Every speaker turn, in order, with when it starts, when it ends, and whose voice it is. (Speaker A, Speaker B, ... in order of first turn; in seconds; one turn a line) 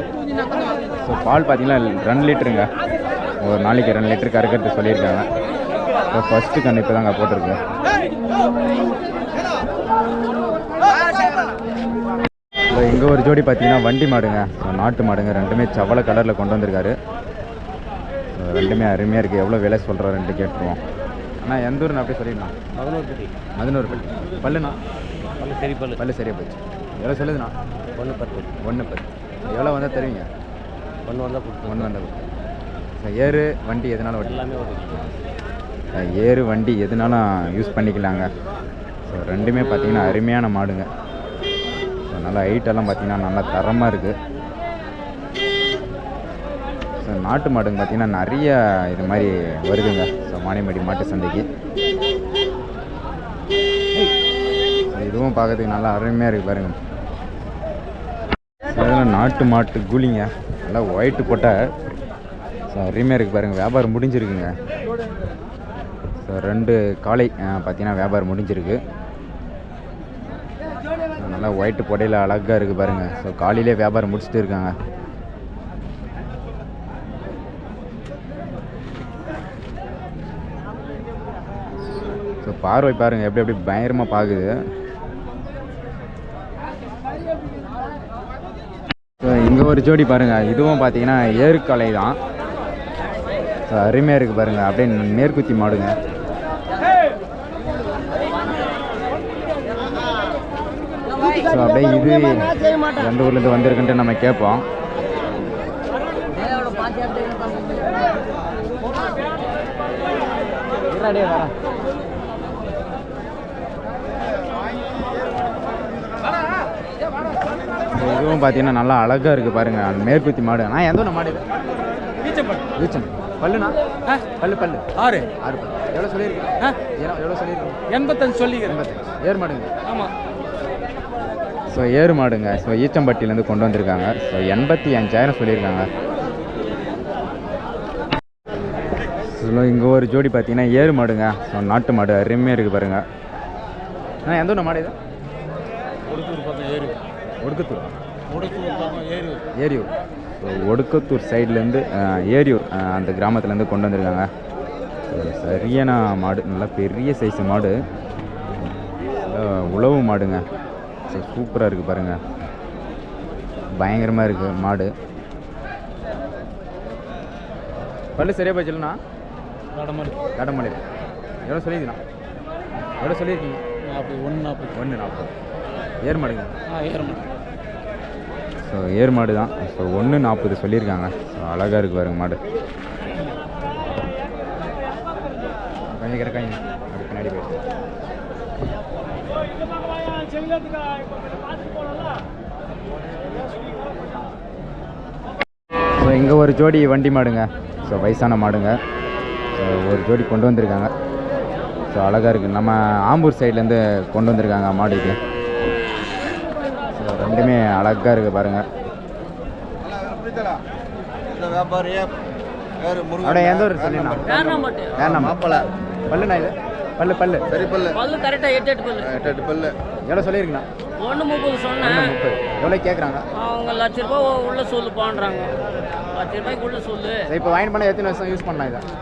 Speaker A: 1.0-2.7
Speaker A: 3.4-5.3
Speaker A: 6.1-7.6
Speaker A: 12.7-16.9
Speaker A: 18.3-20.8
Speaker A: 21.4-22.5
Speaker B: 22.8-23.3
Speaker A: 23.6-24.8
Speaker B: 25.4-26.0
Speaker A: 25.9-27.5
Speaker B: 28.0-28.5
Speaker A: 28.6-30.3
Speaker B: 31.1-31.9
Speaker A: 31.6-32.1
Speaker A: 33.0-34.4
Speaker B: 34.2-35.1
Speaker A: 35.9-38.3
Speaker A: 39.1-40.9
Speaker A: 42.1-44.1
Speaker A: 47.0-51.5
Speaker A: 54.9-56.8
Speaker A: 58.7-61.6
Speaker A: 62.7-64.6
Speaker A: 66.2-68.8
Speaker A: 71.2-74.7
Speaker A: 82.4-84.6
Speaker A: 89.2-92.2
Speaker A: 93.7-95.9
Speaker A: 101.4-104.6
Speaker A: 111.0-111.5
Speaker A: 117.9-121.4
Speaker C: 122.2-122.6
Speaker A: 122.8-123.8
Speaker A: 124.4-124.9
Speaker A: 125.4-127.8
Speaker C: 127.9-128.6
Speaker A: 128.5-129.7
Speaker A: 131.7-135.9
Speaker A: 139.2-143.0
Speaker A: 144.2-144.9
Speaker C: 146.1-147.0
Speaker A: 147.4-147.9
Speaker C: 148.3-149.4
Speaker A: 149.5-154.3
Speaker A: 155.1-157.8
Speaker A: 159.2-160.4
Speaker A: 161.1-162.2
Speaker A: 163.8-164.9
Speaker A: 168.2-169.0
Speaker C: 169.7-170.2
Speaker A: 170.4-170.8
Speaker A: 171.4-172.0
Speaker A: 173.0-173.6
Speaker C: 173.8-174.7
Speaker A: 174.7-175.3
Speaker A: 176.0-176.5
Speaker C: 176.7-177.3
Speaker A: 178.6-182.4
Speaker A: 185.9-187.6
Speaker A: 196.0-198.8
Speaker A: 199.6-200.9
Speaker A: 201.9-205.2
Speaker A: 206.9-208.6
Speaker D: 211.3-212.1
Speaker D: 212.8-215.7
Speaker A: 213.2-214.2
Speaker E: 214.2-214.9
Speaker A: 214.9-215.4
Speaker A: 216.1-217.5
Speaker D: 217.5-217.9
Speaker E: 217.9-219.2
Speaker D: 219.1-219.7
Speaker A: 220.1-220.7
Speaker E: 221.0-222.2
Speaker A: 221.8-223.2
Speaker E: 223.3-225.6
Speaker E: 226.1-227.3
Speaker A: 227.3-228.8